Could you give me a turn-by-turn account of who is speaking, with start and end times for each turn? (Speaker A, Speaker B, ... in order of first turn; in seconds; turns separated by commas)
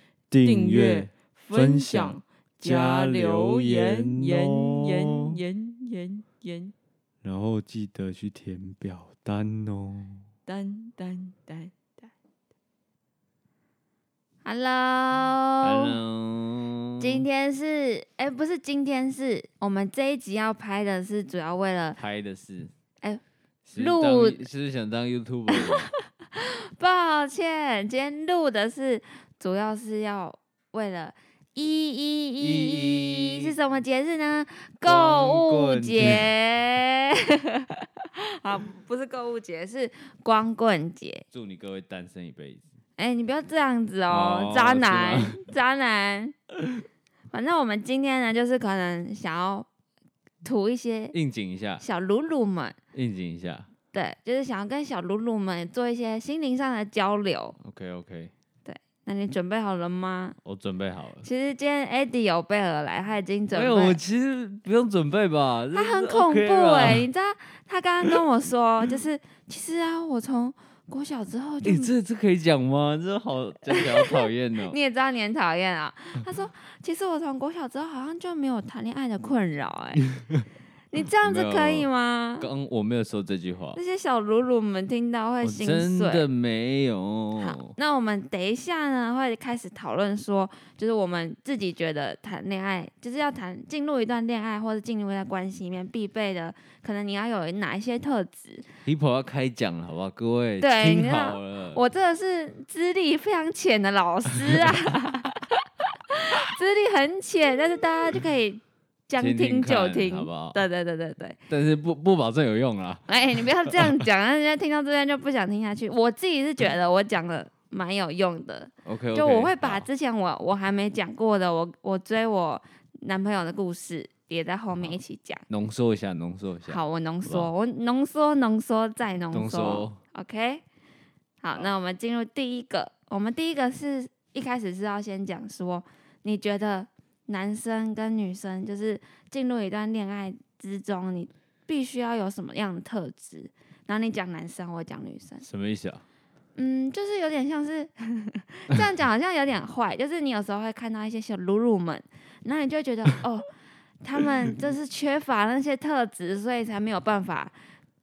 Speaker A: 0.3-5.3, Speaker B: 0.4-6.7, Speaker A: 7.2-10.2, Speaker B: 10.5-12.1, Speaker C: 14.4-15.9, Speaker A: 15.6-17.2, Speaker C: 17.0-22.0, Speaker A: 22.0-22.7, Speaker A: 23.6-25.9, Speaker C: 23.8-24.4, Speaker C: 25.5-41.2, Speaker A: 32.4-33.5, Speaker A: 34.8-36.3, Speaker A: 41.3-42.6, Speaker C: 43.0-46.3, Speaker A: 44.1-45.4, Speaker C: 47.3-49.7, Speaker C: 50.4-51.1, Speaker A: 51.1-51.8, Speaker C: 51.8-52.8, Speaker A: 52.9-53.7, Speaker C: 53.9-57.6, Speaker A: 57.6-58.3, Speaker C: 58.6-60.4, Speaker A: 60.4-61.3, Speaker C: 61.2-64.0, Speaker A: 63.5-67.0, Speaker C: 65.7-71.9, Speaker A: 71.6-74.8, Speaker C: 73.7-80.0, Speaker A: 80.0-80.5, Speaker C: 80.9-82.5, Speaker A: 81.1-81.9, Speaker A: 82.4-83.8, Speaker C: 83.7-86.2, Speaker A: 85.4-87.7, Speaker C: 87.4-98.7, Speaker A: 98.8-101.8, Speaker C: 100.6-105.4, Speaker A: 104.4-104.7, Speaker C: 106.1-111.4, Speaker A: 109.2-110.6, Speaker A: 111.5-113.1, Speaker C: 113.1-125.5, Speaker A: 113.7-114.0, Speaker A: 118.8-119.9, Speaker A: 124.7-127.5, Speaker C: 126.7-130.6, Speaker A: 129.3-130.0, Speaker C: 131.4-145.4, Speaker A: 145.4-146.0, Speaker C: 146.6-153.5, Speaker C: 154.0-157.5